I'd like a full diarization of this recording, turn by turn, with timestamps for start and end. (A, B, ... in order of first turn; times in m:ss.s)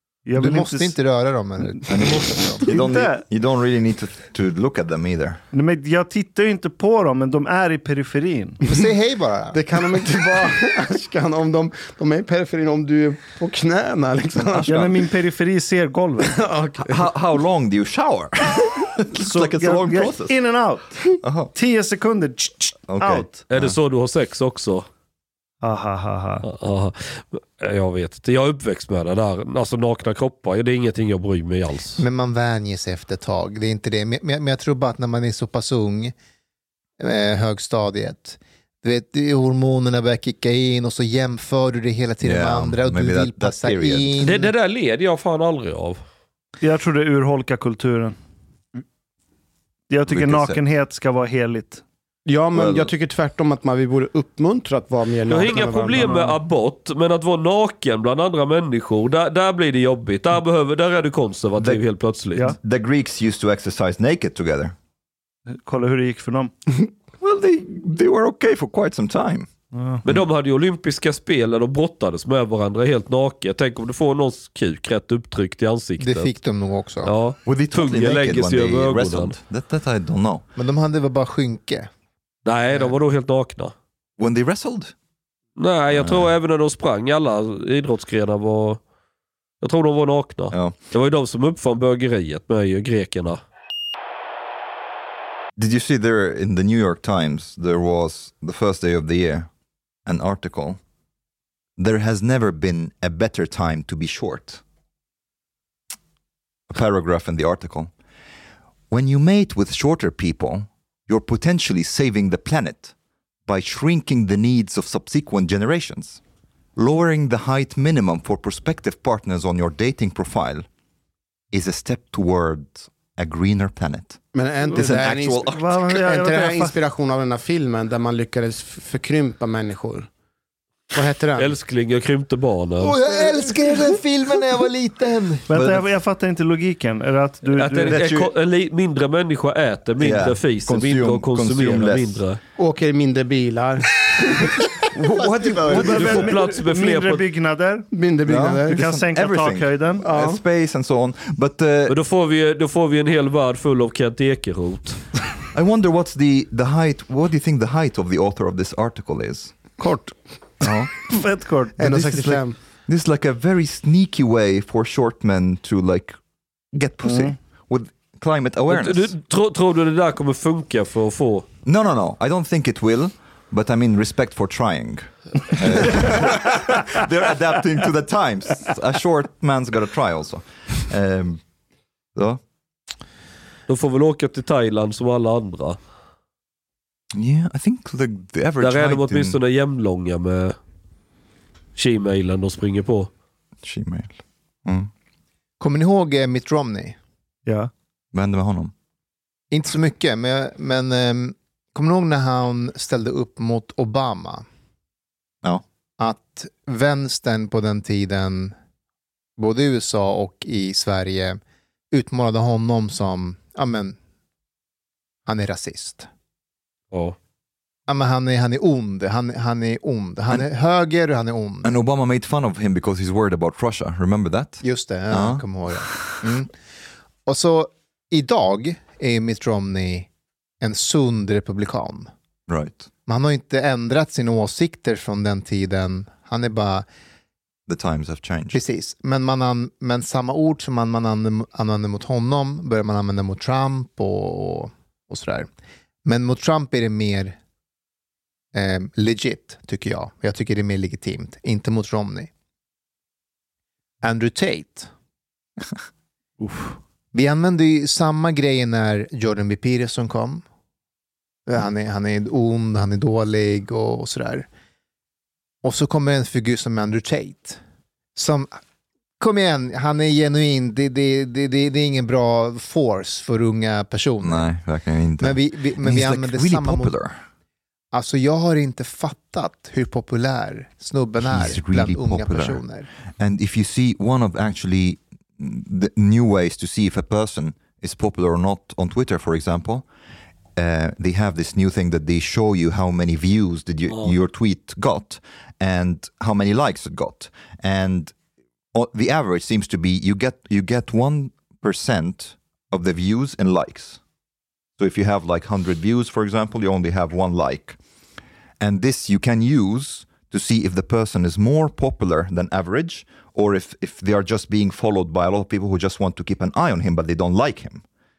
0:00.2-0:00.9 A
0:00.4-0:02.6 B
0:01.9-0:05.4 C
0:02.6-0:03.2 A
0:05.5-0:08.6 A
0:08.6-0:09.6 B
0:09.5-0:14.8 D
0:14.4-0:15.0 C
0:14.6-0:16.4 A
0:16.2-0:17.0 D
0:16.8-0:20.3 C
0:19.2-0:23.4 A
0:21.2-0:21.5 C
0:22.9-0:23.8 C
0:23.5-0:24.9 E
0:25.6-0:26.4 A
0:26.4-0:32.0 E
0:32.0-0:36.1 B
0:37.0-0:44.5 B
0:42.2-0:44.1 C
0:44.2-0:46.0 E
0:46.6-0:48.2 A
0:49.9-0:51.8 A
0:50.1-0:50.6 C
0:52.2-0:56.3 D
0:52.5-0:52.9 C
0:55.3-1:02.5 E
1:02.5-1:04.7 C
1:05.5-1:06.5 A
1:07.2-1:09.5 C
1:09.7-1:10.0 A
1:10.0-1:16.3 E
1:16.0-1:17.1 B
1:17.0-1:19.4 E
1:17.4-1:20.4 C
1:20.6-1:21.9 B
1:22.4-1:23.7 E
1:24.2-1:24.9 C
1:25.6-1:28.8 E
1:25.9-1:26.3 C
1:29.6-1:33.4 E
1:35.6-1:39.5 C
1:40.0-1:40.8 C
1:41.8-1:44.6 C
1:46.7-1:47.9 C
1:48.9-1:52.9 C
1:53.5-1:56.2 C
1:56.8-2:00.7 C
2:01.5-2:04.2 C
2:04.3-2:10.1 D
2:04.7-2:05.8 C
2:05.5-2:06.8 A
2:10.9-2:11.6 D
2:11.4-2:12.9 E
2:12.8-2:15.5 B
2:15.5-2:18.0 A
2:15.5-2:15.9 C
2:17.5-2:22.4 E
2:17.9-2:18.3 C
2:20.0-2:22.2 C
2:22.6-2:24.5 D
2:25.0-2:26.3 C
2:25.7-2:27.2 E
2:25.7-2:27.9 A
2:27.9-2:28.9 D
2:28.2-2:32.0 C
2:28.7-2:30.0 A
2:30.0-2:30.4 D
2:31.9-2:35.0 E
2:35.5-2:39.6 C
2:39.8-2:40.1 D
2:40.6-2:41.0 C
2:41.0-2:41.8 A
2:41.8-2:42.6 D
2:41.8-2:46.2 C
2:46.7-2:49.1 C
2:47.0-2:47.3 A
2:48.7-2:51.4 E
2:51.6-3:01.4 C
3:02.1-3:02.4 C
3:03.7-3:05.8 E
3:07.1-3:09.4 C
3:08.6-3:10.6 E
3:11.8-3:13.1 E
3:13.6-3:14.9 C
3:15.6-3:17.0 B
3:17.4-3:17.7 A
3:18.1-3:18.7 C
3:19.5-3:24.4 B
3:26.0-3:28.5 B
3:29.4-3:31.4 B
3:31.9-3:34.0 B
3:35.2-3:36.1 B
3:37.9-3:41.7 B
3:41.6-3:46.4 C
3:44.6-3:46.5 B
3:47.2-3:50.1 B
3:50.6-3:52.1 B
3:52.5-3:52.9 C
3:53.0-3:56.8 B
3:57.7-3:58.6 C
3:58.5-4:05.5 B
4:06.0-4:07.4 B
4:08.5-4:12.3 B
4:14.0-4:14.9 B
4:16.4-4:16.8 A
4:17.1-4:20.4 B
4:21.4-4:24.5 B
4:25.6-4:27.6 B
4:28.2-4:28.6 B
4:29.2-4:34.5 B
4:34.2-4:37.2 C
4:35.2-4:36.9 B
4:37.9-4:42.9 B
4:41.2-4:42.6 C
4:43.2-4:49.8 C
4:50.6-4:58.1 C
4:58.7-5:04.0 C
5:04.8-5:07.8 C
5:08.6-5:17.8 C